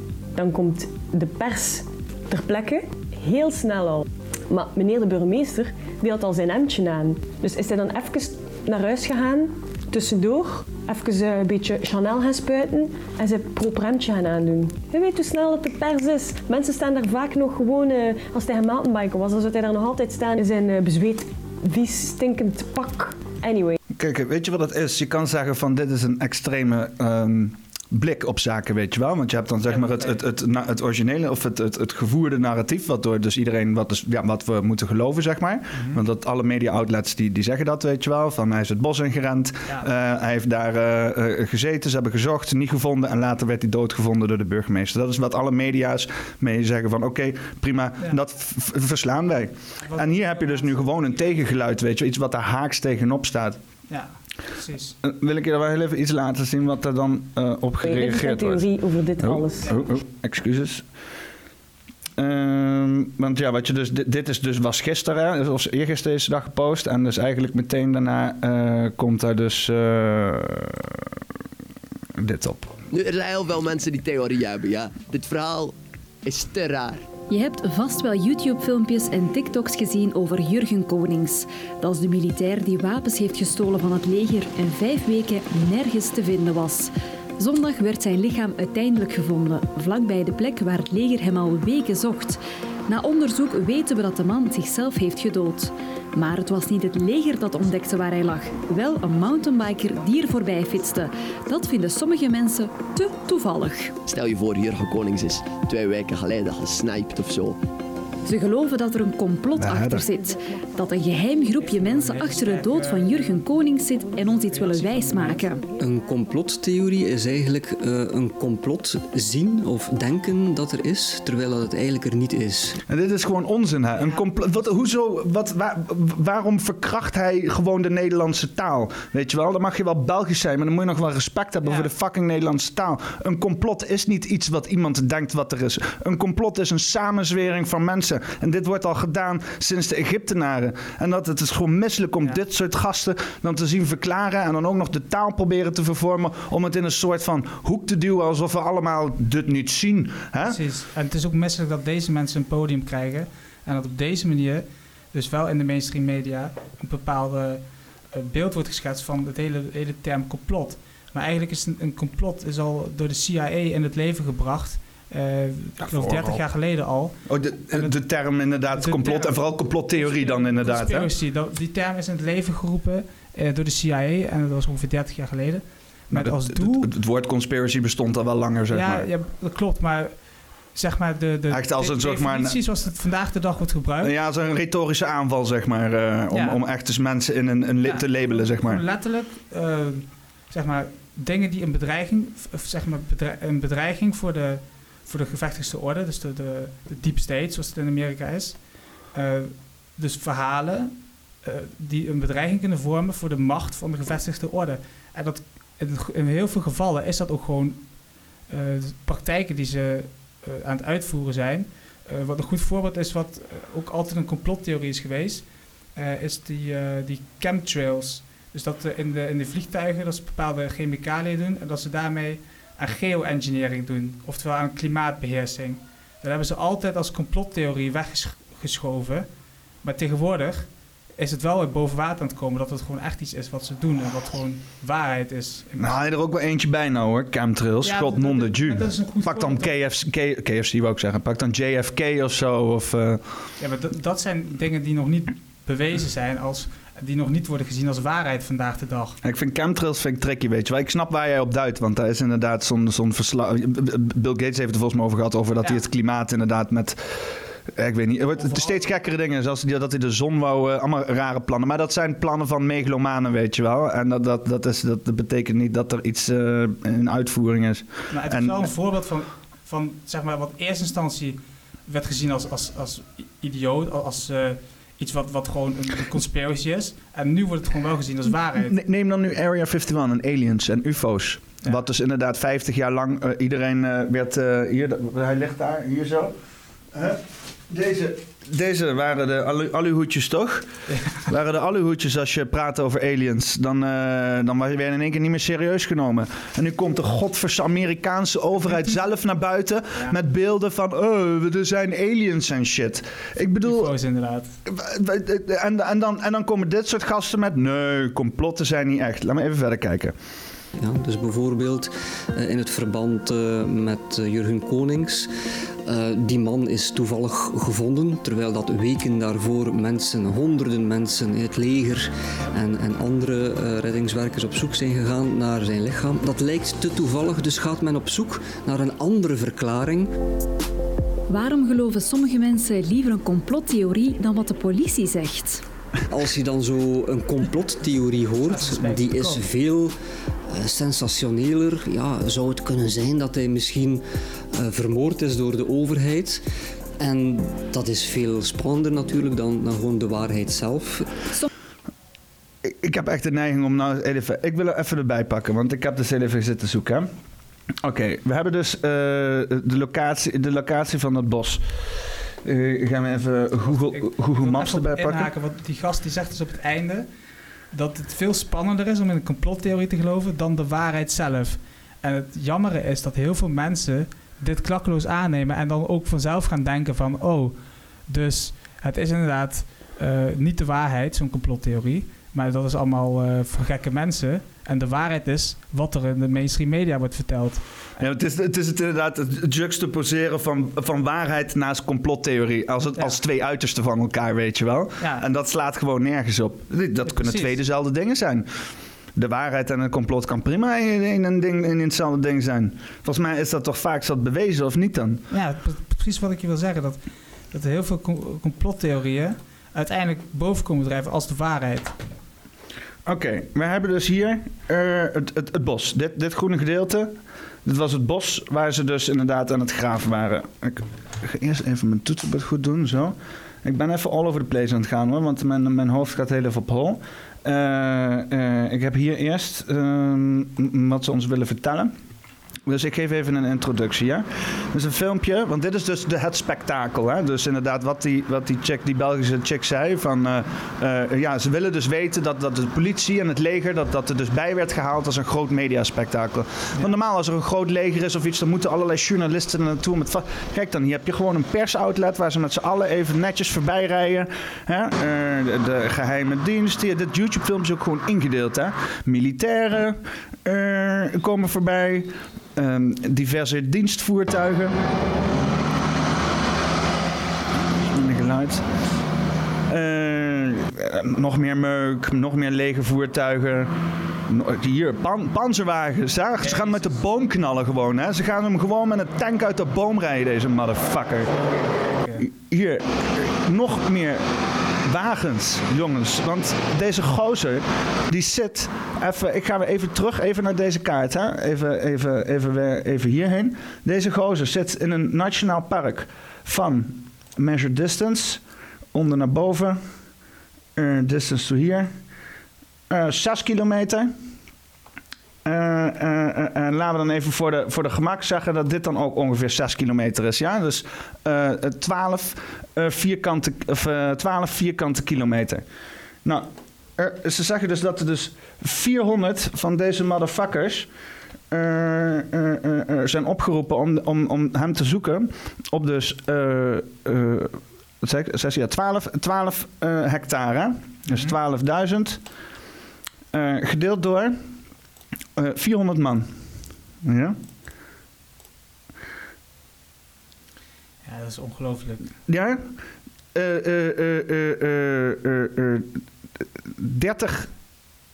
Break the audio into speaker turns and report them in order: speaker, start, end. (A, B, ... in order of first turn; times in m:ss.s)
0:00.3-0:23.8 A
0:23.9-0:53.6 B
0:29.7-0:30.2 C
0:49.8-0:51.5 C
0:53.9-0:55.0 C
0:55.0-0:58.7 B
0:57.8-0:59.8 A
0:59.2-1:00.8 B
0:59.6-1:00.0 C
1:02.2-1:10.9 B
1:12.2-1:12.7 B
1:12.9-1:17.1 D
1:17.3-1:44.0 E
1:44.0-1:47.6 D
1:48.2-1:55.7 E
1:49.6-1:50.0 B
1:51.6-1:53.4 C
1:54.5-1:55.4 C
1:55.8-2:02.8 F
2:02.9-2:30.6 B
2:04.0-2:04.2 C
2:11.6-2:11.9 C
2:30.4-2:47.9 C
2:45.8-2:46.4 B
2:47.2-2:51.1 B
2:48.7-2:56.9 C
2:56.1-2:59.0 B
2:58.7-3:04.1 C
3:01.5-3:02.6 B
3:04.0-3:08.8 B
3:06.3-3:06.6 C
3:07.8-3:27.8 C
3:28.5-3:49.3 C
3:49.8-3:56.0 C
3:55.8-4:03.4 B
3:57.8-3:59.7 C
4:03.6-4:09.2 C
4:09.2-4:28.7 B
4:18.3-4:18.9 C
4:28.1-4:38.8 C
4:38.6-4:46.3 B
4:46.9-5:03.9 B
5:03.6-5:04.6 C
5:04.6-5:10.1 B
5:10.8-5:15.3 F
5:15.8-5:30.1 F
5:31.3-5:35.6 E
5:36.1-5:39.9 F
5:38.4-5:39.4 C
5:40.5-5:44.0 F
5:44.5-5:46.4 F
5:47.0-5:51.2 F
5:52.6-5:57.1 B
5:57.8-6:05.3 B
6:03.6-6:07.1 C
6:07.7-6:27.9 C
6:28.0-6:38.5 B
6:35.0-6:35.2 C
6:37.0-6:37.6 C
6:39.1-6:45.2 B
6:45.3-6:51.9 C
6:53.0-7:11.9 B
7:12.6-7:44.8 B
7:47.9-7:48.6 B
7:49.7-7:53.7 B
7:54.2-8:01.3 B
7:56.4-7:57.0 C
8:01.5-8:02.2 C
8:02.2-8:04.2 B
8:04.8-8:18.4 B
8:18.9-8:19.8 B
8:20.8-8:21.9 B
8:22.9-8:24.1 B
8:25.4-8:35.6 B
8:36.2-8:40.9 B
8:41.5-8:52.2 B
8:51.1-8:51.3 C
8:53.3-8:54.4 B
8:55.4-8:56.3 B
8:57.0-8:57.4 B
9:01.0-9:02.2 C
9:02.3-9:02.7 B
9:03.3-9:07.5 B